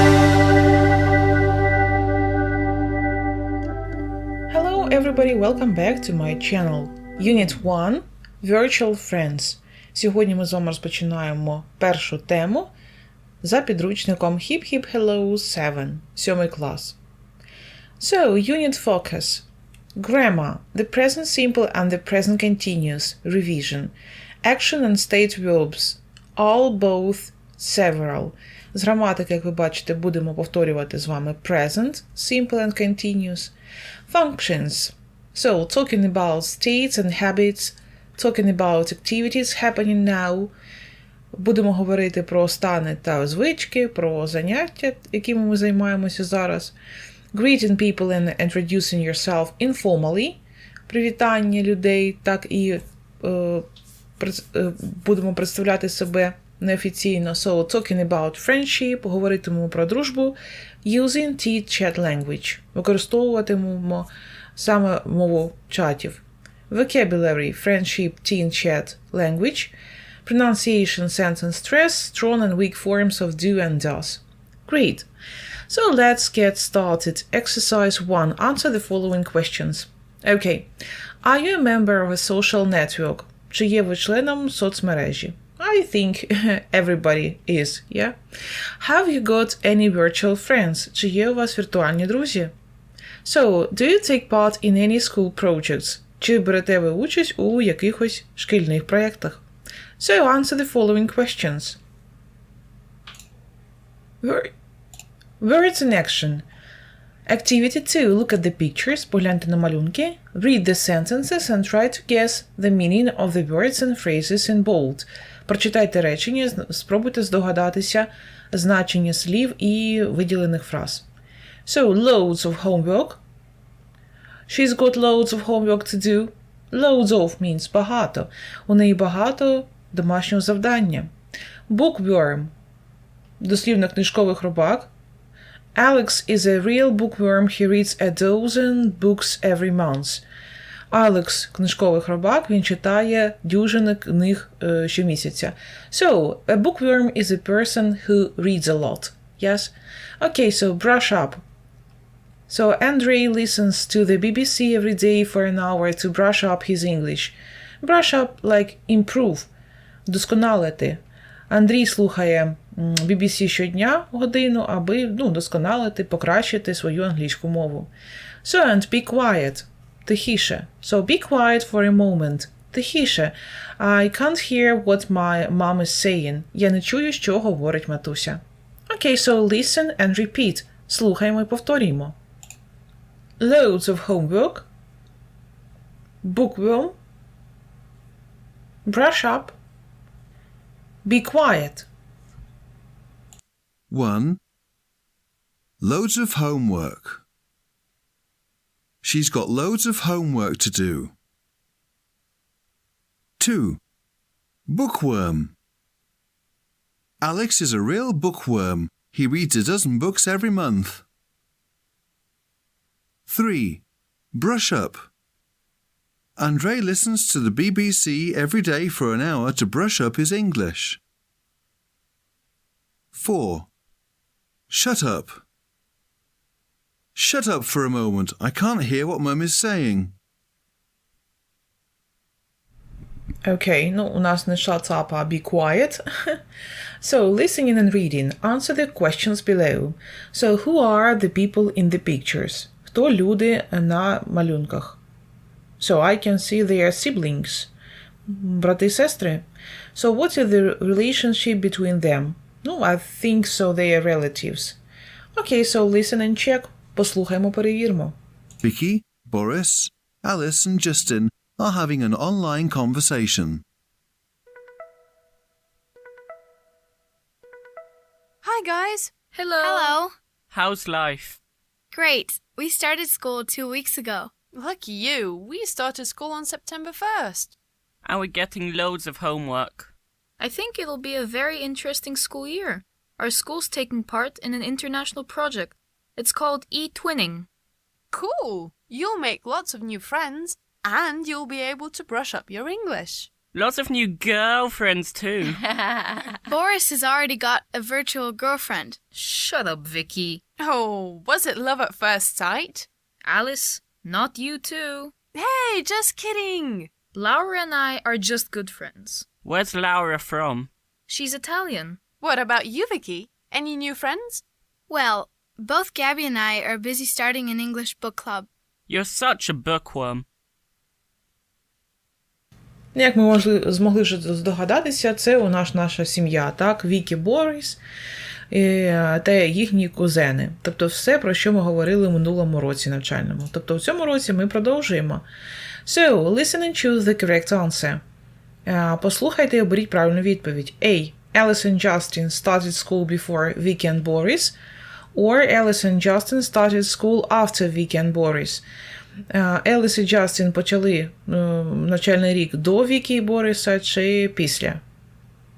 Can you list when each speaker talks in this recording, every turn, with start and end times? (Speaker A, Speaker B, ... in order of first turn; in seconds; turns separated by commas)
Speaker A: 4.5-12.7, Speaker A: 13.4-17.0, Speaker A: 18.0-19.4, Speaker A: 20.0-33.5, Speaker A: 34.1-40.5, Speaker A: 41.3-46.7, Speaker A: 47.3-53.6, Speaker A: 54.2-69.7, Speaker A: 70.2-75.1, Speaker A: 75.7-80.7, Speaker A: 81.2-88.2, Speaker A: 88.8-92.5, Speaker A: 93.2-99.4, Speaker A: 100.0-101.8, Speaker A: 104.2-104.5, Speaker A: 105.4-106.4, Speaker A: 107.3-121.0, Speaker A: 121.6-123.2, Speaker A: 124.5-131.1, Speaker A: 131.7-132.5, Speaker A: 133.4-134.9, Speaker A: 135.7-140.2, Speaker A: 140.9-151.4, Speaker A: 152.5-159.5, Speaker A: 160.1-161.0, Speaker A: 161.5-167.9, Speaker A: 168.4-182.2, Speaker A: 183.4-184.7, Speaker A: 186.2-186.9, Speaker A: 188.8-189.5, Speaker A: 191.0-191.9, Speaker B: 193.9-194.4, Speaker B: 195.8-197.2, Speaker B: 199.0-201.1, Speaker B: 203.4-203.8, Speaker B: 204.7-205.5, Speaker B: 207.2-211.0, Speaker B: 213.3-213.8, Speaker B: 214.3-215.1, Speaker B: 216.4-221.0, Speaker B: 223.1-223.7, Speaker B: 224.7-225.4, Speaker B: 227.1-230.1, Speaker A: 233.4-236.4, Speaker A: 237.0-245.0, Speaker A: 245.8-247.7, Speaker A: 248.3-254.8, Speaker A: 255.3-258.1, Speaker B: 258.6-263.6, Speaker C: 268.4-269.1, Speaker D: 269.3-270.0, Speaker E: 269.6-270.1, Speaker F: 270.5-271.4, Speaker E: 271.9-274.3, Speaker C: 274.5-277.5, Speaker F: 278.0-279.9, Speaker D: 280.4-287.5, Speaker C: 288.1-293.3, Speaker F: 293.5-295.6, Speaker E: 296.5-299.0, Speaker D: 299.1-300.4, Speaker C: 300.6-302.9, Speaker D: 303.2-305.1, Speaker C: 305.4-306.9, Speaker D: 307.1-309.2, Speaker F: 309.4-310.7, Speaker D: 311.1-312.0, Speaker C: 312.2-314.4, Speaker E: 314.9-318.5, Speaker F: 318.9-320.2, Speaker A: 322.9-327.8, Speaker A: 328.5-335.2, Speaker A: 335.9-338.0, Speaker A: 338.6-344.6, Speaker A: 345.1-348.6, Speaker A: 349.3-354.8